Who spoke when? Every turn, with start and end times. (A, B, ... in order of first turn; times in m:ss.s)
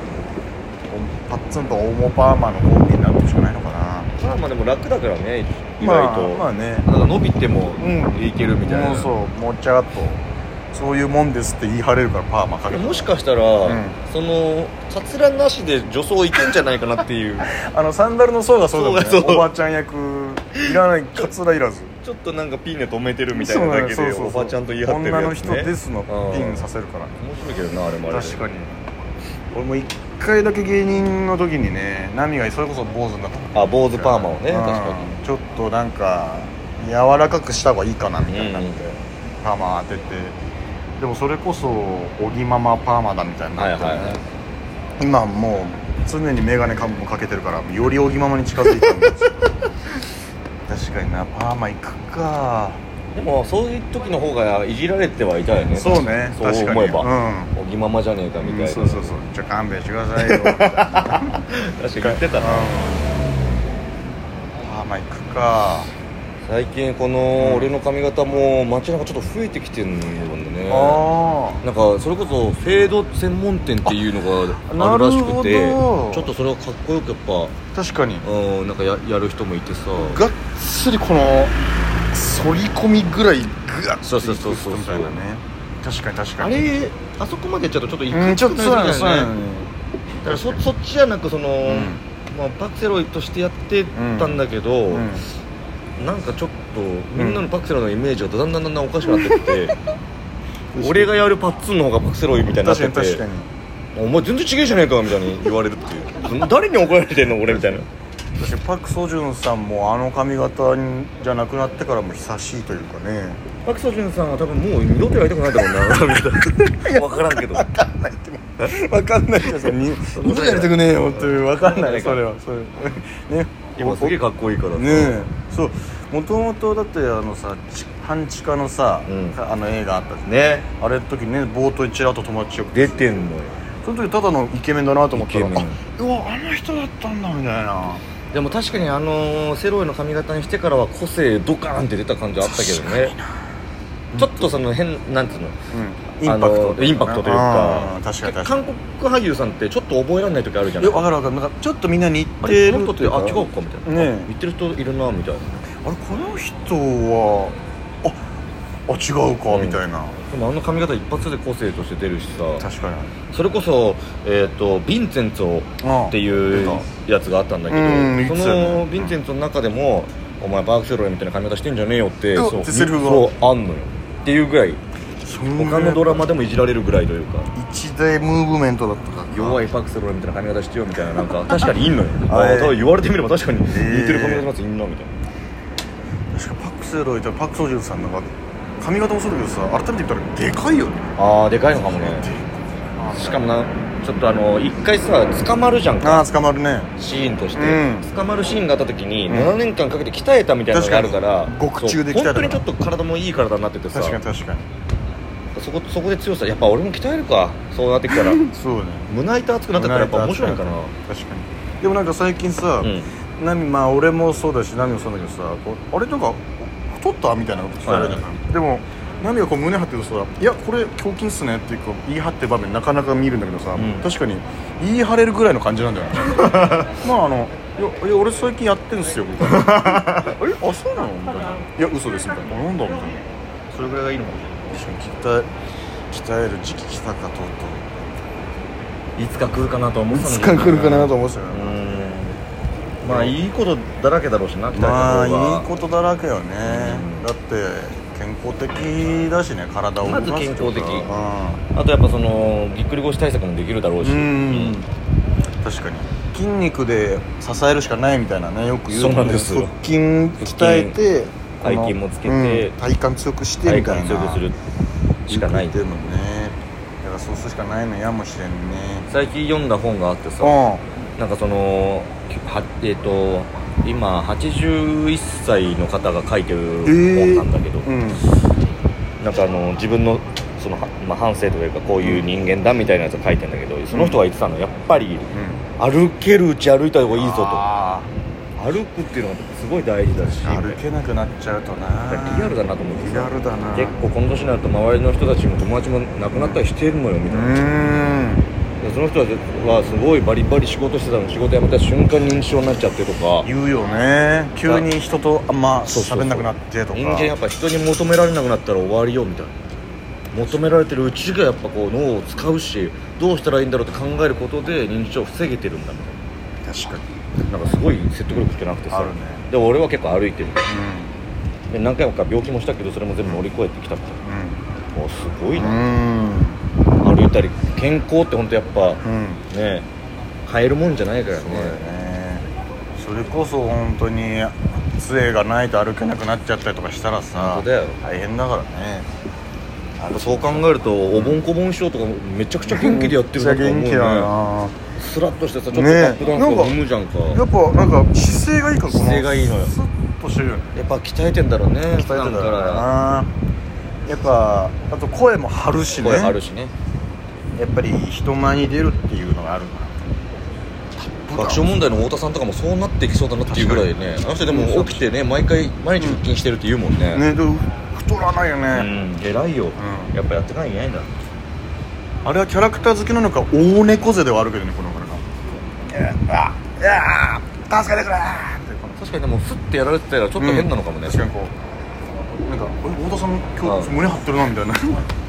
0:00.9-0:04.1 A
0:04.2-0:09.2 B
0:05.8-0:06.9 A
0:07.8-0:13.1 A
0:12.7-0:17.5 B
0:13.6-0:14.0 A
0:17.5-0:22.0 A
0:18.7-0:19.5 B
0:22.0-0:26.7 B
0:23.3-0:27.2 A
0:27.2-0:28.4 B
0:28.1-0:28.8 A
0:29.5-0:40.4 A
0:33.5-0:35.2 B
0:38.3-0:38.8 B
0:41.0-0:44.2 A
0:43.6-0:44.2 B
0:45.0-0:49.4 A
0:50.7-0:52.8 A
0:53.1-0:59.2 B
0:55.7-0:57.5 A
0:58.4-1:01.4 A
1:00.2-1:02.7 B
1:02.0-1:03.1 A
1:04.6-1:05.9 A
1:06.4-1:11.1 B
1:07.4-1:07.7 A
1:10.7-1:11.6 A
1:11.6-1:17.6 B
1:14.6-1:16.4 A
1:17.7-1:18.3 A
1:18.2-1:20.2 B
1:20.0-1:21.6 A
1:22.1-1:26.7 A
1:24.1-1:25.2 B
1:26.4-1:29.4 B
1:28.1-1:29.7 A
1:30.2-1:35.1 B
1:30.3-1:30.7 A
1:31.6-1:32.0 A
1:34.0-1:35.3 A
1:36.0-1:39.8 B
1:37.2-1:37.4 A
1:39.2-1:39.6 A
1:40.7-1:41.2 A
1:40.8-1:43.2 B
1:42.5-1:43.5 A
1:44.0-1:47.9 B
1:48.4-1:53.4 A
1:53.6-1:57.7 B
1:56.8-2:04.2 A
2:00.1-2:02.2 B
2:03.8-2:05.3 B
2:04.8-2:13.2 A
2:09.1-2:09.4 B
2:10.2-2:10.7 B
2:12.7-2:13.6 B
2:13.8-2:18.0 A
2:15.1-2:15.8 B
2:18.3-2:23.1 B
2:22.4-2:23.2 A
2:24.1-2:24.6 A
2:24.2-2:25.6 B
2:25.7-2:28.6 A
2:26.2-2:31.1 B
2:30.8-2:34.3 A
2:32.4-2:35.6 B
2:35.8-2:38.2 A
2:38.9-2:40.2 A
2:39.5-2:42.7 B
2:42.6-2:43.1 A
2:43.3-2:54.8 B
2:45.8-2:46.9 A
2:47.7-2:49.1 A
2:52.4-2:53.4 A
2:55.2-2:56.3 A
2:55.6-2:57.5 B
2:57.5-2:59.6 A
2:59.3-3:05.1 B
3:01.4-3:01.7 A
3:02.2-3:02.8 A
3:03.7-3:04.5 A
3:06.3-3:11.1 A
3:11.2-3:12.3 B
3:11.7-3:13.5 A
3:13.1-3:16.3 B
3:16.0-3:16.9 A
3:17.0-3:24.2 B
3:17.6-3:18.1 A
3:19.3-3:19.6 A
3:20.7-3:22.7 A
3:23.9-3:24.7 A
3:25.6-3:28.4 B
3:28.1-3:29.1 A
3:29.1-3:30.9 B
3:29.7-3:53.2 A
3:32.8-3:33.1 B
3:37.8-3:38.2 B
3:43.8-3:44.1 B
3:46.4-3:46.9 B
3:49.4-3:50.4 B
3:53.7-3:54.4 B
3:54.7-3:55.5 A
3:56.1-3:57.9 A
3:59.2-4:02.4 B
4:00.1-4:02.2 A
4:03.0-4:05.7 B
4:03.0-4:03.4 A
4:04.7-4:11.6 A
4:06.6-4:07.3 B
4:10.0-4:11.1 B
4:11.8-4:14.8 B
4:14.0-4:14.9 A
4:15.6-4:24.4 A
4:18.9-4:19.7 B
4:20.4-4:21.0 B
4:21.6-4:22.8 B
4:23.6-4:24.6 B
4:25.3-4:25.8 B
4:25.3-4:29.1 A
4:29.1-4:30.6 B
4:30.4-4:30.9 A
4:31.2-4:37.9 B
4:36.8-4:38.3 A
4:39.2-4:47.6 B
4:42.0-4:42.3 A
4:43.9-4:44.2 A
4:45.3-4:45.6 A
4:47.1-4:48.1 A
4:48.6-4:50.8 B
4:50.2-4:54.0 A
4:52.1-4:57.6 B
4:56.3-4:56.6 A
4:57.3-4:58.5 A
4:58.8-5:03.5 B
5:03.4-5:07.3 A
5:04.6-5:04.9 B
5:05.9-5:09.6 B
5:10.3-5:16.2 B
5:10.4-5:10.7 A
5:16.7-5:17.0 A
5:17.5-5:20.6 B
5:18.9-5:19.5 A
5:20.7-5:21.1 A
5:21.7-5:24.2 B
5:24.2-5:24.6 A
5:24.9-5:25.8 B
5:25.6-5:26.6 A
5:27.0-5:29.9 B
5:29.0-5:29.4 A
5:30.5-5:31.8 B
5:31.3-5:39.1 A
5:37.4-5:38.0 B
5:40.0-5:41.4 A
5:40.1-5:44.3 B
5:42.6-5:44.8 A
5:45.0-5:47.4 B
5:45.7-5:46.8 A
5:47.3-5:50.8 A
5:48.9-5:49.7 B
5:50.8-5:52.9 B
5:51.9-5:53.3 A
5:54.1-5:56.4 A
5:55.9-5:56.7 B
5:57.6-6:00.0 A
6:01.0-6:01.9 A
6:01.4-6:07.3 B
6:03.5-6:03.9 A
6:04.5-6:05.1 A
6:06.0-6:06.2 A
6:07.1-6:08.9 A
6:08.7-6:11.1 B
6:09.8-6:10.1 A
6:12.2-6:15.2 A
6:15.9-6:19.0 A
6:16.9-6:17.4 B
6:19.0-6:21.2 B
6:20.4-6:21.6 A
6:22.5-6:25.0 A
6:23.6-6:24.0 B